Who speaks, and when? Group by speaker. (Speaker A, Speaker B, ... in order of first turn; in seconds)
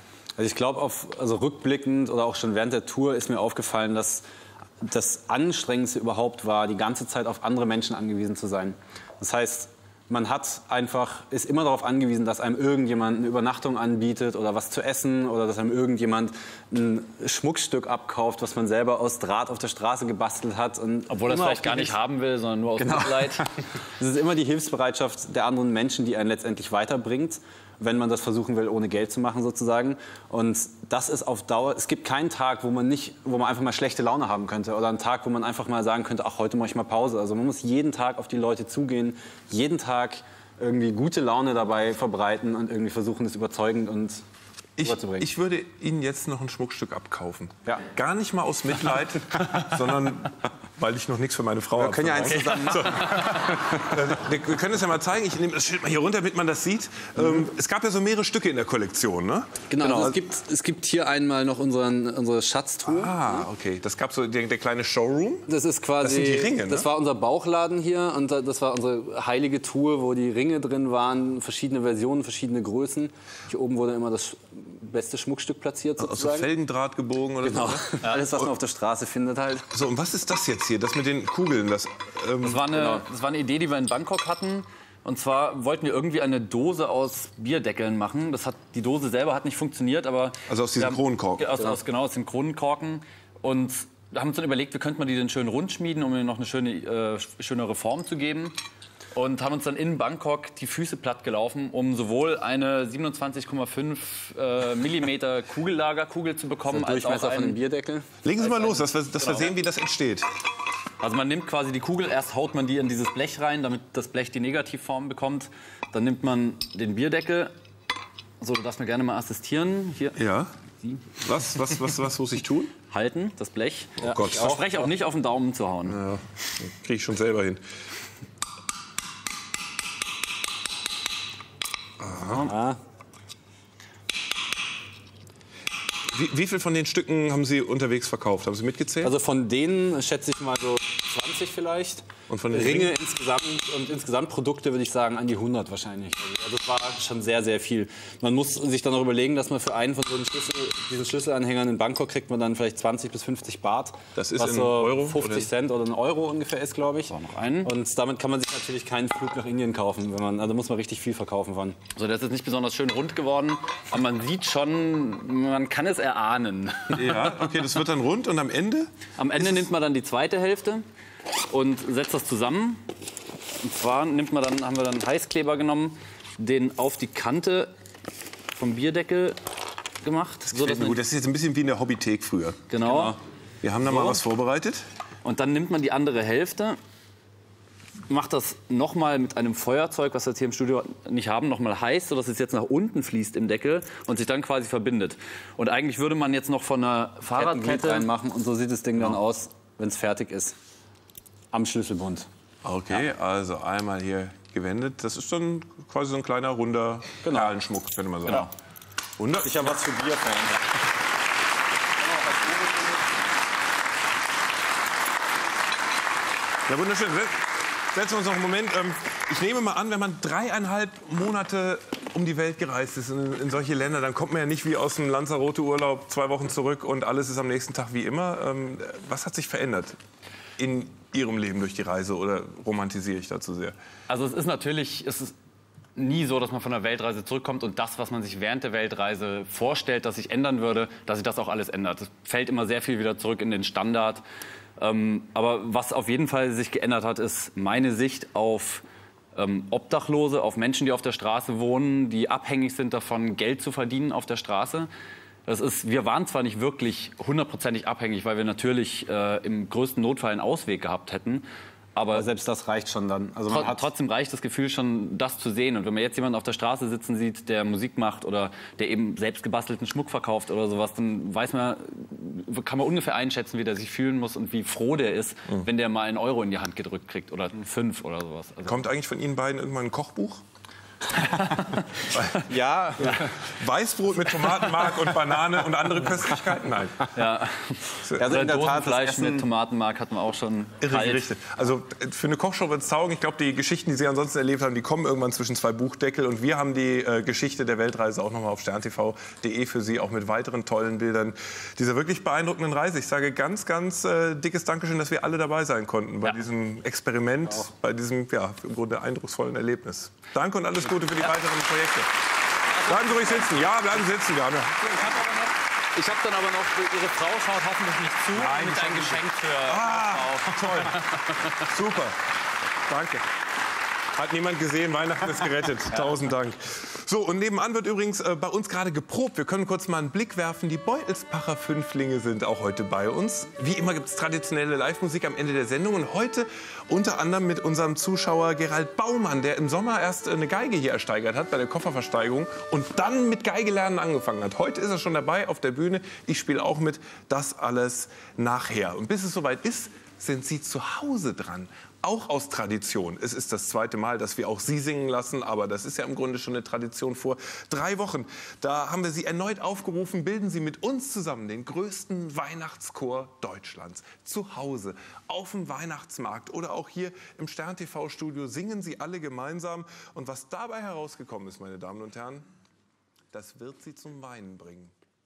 Speaker A: 0.4-4.2, 4.8-22.0, 22.8-44.2, 44.8-45.3, 51.8-53.9, 59.7-63.5, 65.5-76.5, 77.4-79.7, 106.7-108.1, 132.3-132.8, 139.0-161.8, 197.3-200.6, 201.5-202.3, 207.2-207.6, 209.3-210.7, 262.1-263.9, 282.5-283.3, 288.2-289.5
Speaker B: 21.1-23.5, 52.9-53.4, 82.4-98.6, 99.2-107.6, 108.4-109.5, 111.0-117.5, 118.4-120.2, 122.9-126.0, 157.1-157.7, 161.9-167.4, 169.2-170.8, 171.5-172.8, 173.6-177.7, 178.5-179.4, 180.0-181.0, 182.7-183.2, 183.8-184.2, 185.2-186.8, 188.1-198.1, 234.1-235.3, 236.0-244.2, 244.8-248.8, 249.3-254.9, 255.5-262.3, 263.5-278.9, 287.1-291.4, 312.9-313.5, 314.9-321.2
Speaker C: 44.8-60.2, 62.9-66.9, 76.0-78.5, 79.7-83.0, 90.5-91.8, 108.2-110.3, 120.2-120.5, 121.2-122.8, 124.0-124.8, 125.9-127.6, 132.0-132.5, 136.1-139.1, 142.3-142.9, 154.2-155.5, 166.9-169.6, 180.5-184.9, 202.6-208.5, 209.2-209.8, 216.7-230.0, 230.6-233.8, 278.7-280.4, 282.1-282.5, 283.0-287.1, 288.1-288.3, 290.8-312.1, 312.8-314.9, 318.3-322.2, 322.9-323.2, 324.1-372.5, 373.3-374.9